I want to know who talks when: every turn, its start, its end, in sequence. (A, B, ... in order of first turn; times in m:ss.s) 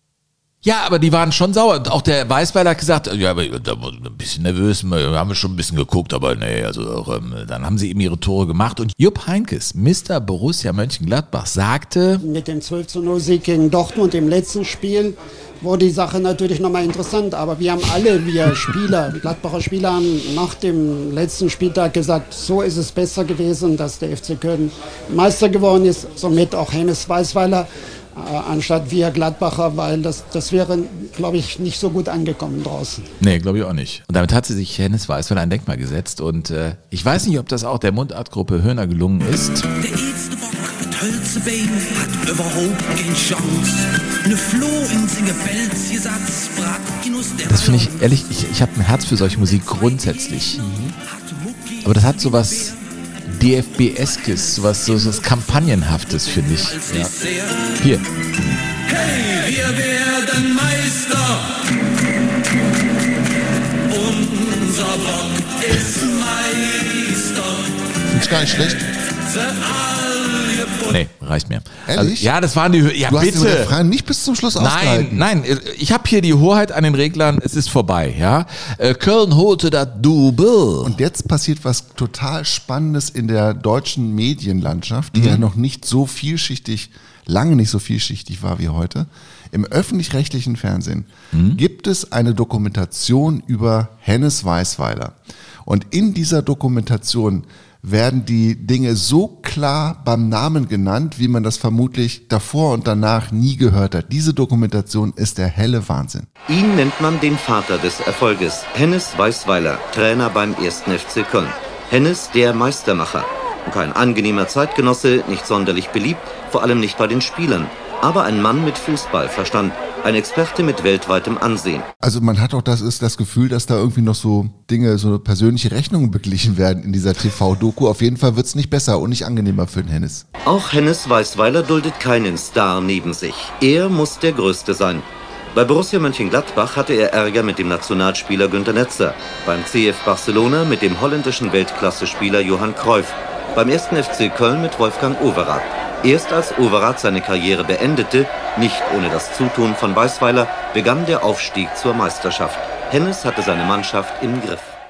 0:00.6-0:12.2 A
0:12.2-0:33.1 B
0:33.2-0:39.7 A
0:39.9-0:47.4 C
0:47.4-0:50.6 A
0:50.6-0:50.9 D
0:51.8-0:56.9 A
0:56.9-0:57.1 D
0:57.8-0:58.0 A
0:59.2-1:01.5 C
1:04.0-1:07.6 C
1:08.1-1:08.9 D
1:09.7-1:10.4 C
1:10.8-1:13.8 A
1:11.9-1:12.3 D
1:13.0-1:15.2 D
1:14.6-1:21.0 A
1:20.8-1:46.3 D
1:25.1-1:25.4 A
1:31.3-1:31.6 A
1:46.5-2:01.9 E
2:02.0-2:10.2 D
2:10.5-2:34.8 E